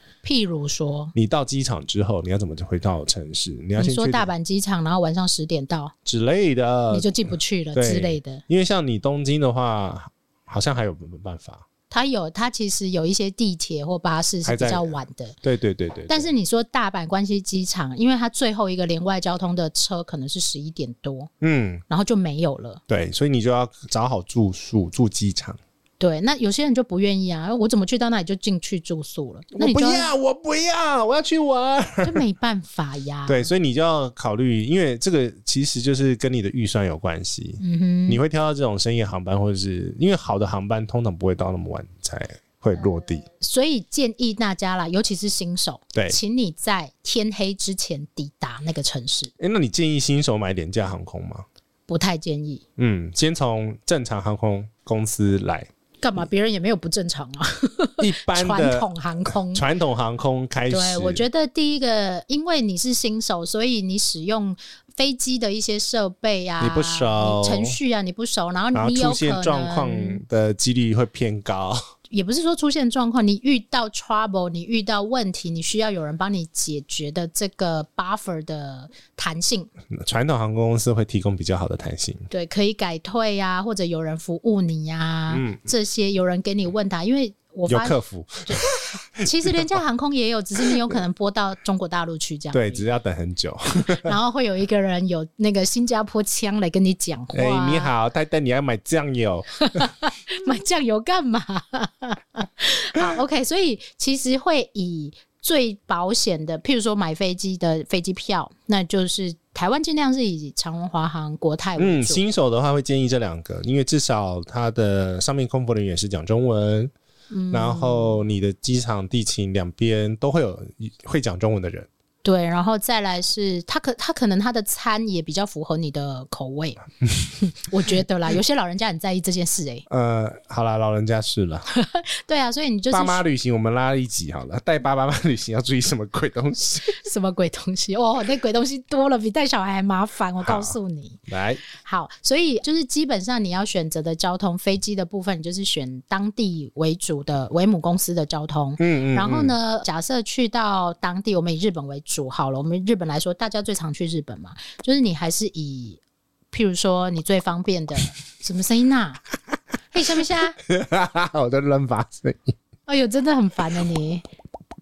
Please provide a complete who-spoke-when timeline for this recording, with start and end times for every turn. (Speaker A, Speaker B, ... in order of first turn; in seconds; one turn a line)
Speaker A: 0.2-1.1
Speaker B: 1.1-4.3
Speaker A: 3.8-5.9
Speaker B: 6.0-7.1
Speaker A: 6.9-8.4
Speaker B: 7.7-11.6
Speaker A: 11.9-15.3
Speaker B: 14.4-14.9
Speaker B: 15.4-16.3
Speaker A: 16.1-21.3
Speaker B: 21.4-21.8
Speaker A: 21.9-22.8
Speaker B: 22.9-25.6
Speaker A: 26.0-30.1
Speaker B: 29.5-32.2
Speaker A: 32.0-33.5
Speaker B: 33.3-43.2
Speaker A: 37.6-38.2
Speaker A: 43.2-49.3
Speaker B: 49.4-51.4
Speaker A: 51.9-52.6
Speaker B: 52.8-55.7
Speaker A: 56.0-59.6
Speaker B: 58.0-61.2
Speaker A: 60.7-70.2
Speaker B: 66.6-67.8
Speaker B: 68.7-71.8
Speaker A: 72.1-79.7
Speaker B: 79.9-82.3
Speaker A: 82.3-88.6
Speaker B: 85.3-85.6
Speaker B: 87.7-89.8
Speaker A: 89.2-92.8
Speaker B: 90.6-91.0
Speaker B: 92.5-94.1
Speaker A: 94.0-97.9
Speaker B: 97.3-99.9
Speaker A: 99.6-112.2
Speaker B: 111.8-116.9
Speaker A: 117.3-118.2
Speaker B: 117.5-121.9
Speaker A: 122.2-126.8
Speaker A: 127.3-129.8
Speaker B: 129.9-131.7
Speaker A: 131.7-133.2
Speaker B: 132.9-136.9
Speaker A: 136.8-141.2
Speaker B: 140.4-140.7
Speaker B: 141.3-141.6
Speaker A: 141.8-156.0
Speaker B: 148.8-149.6
Speaker A: 156.5-159.2
Speaker A: 159.9-160.6
Speaker B: 160.6-162.5
Speaker A: 162.9-164.2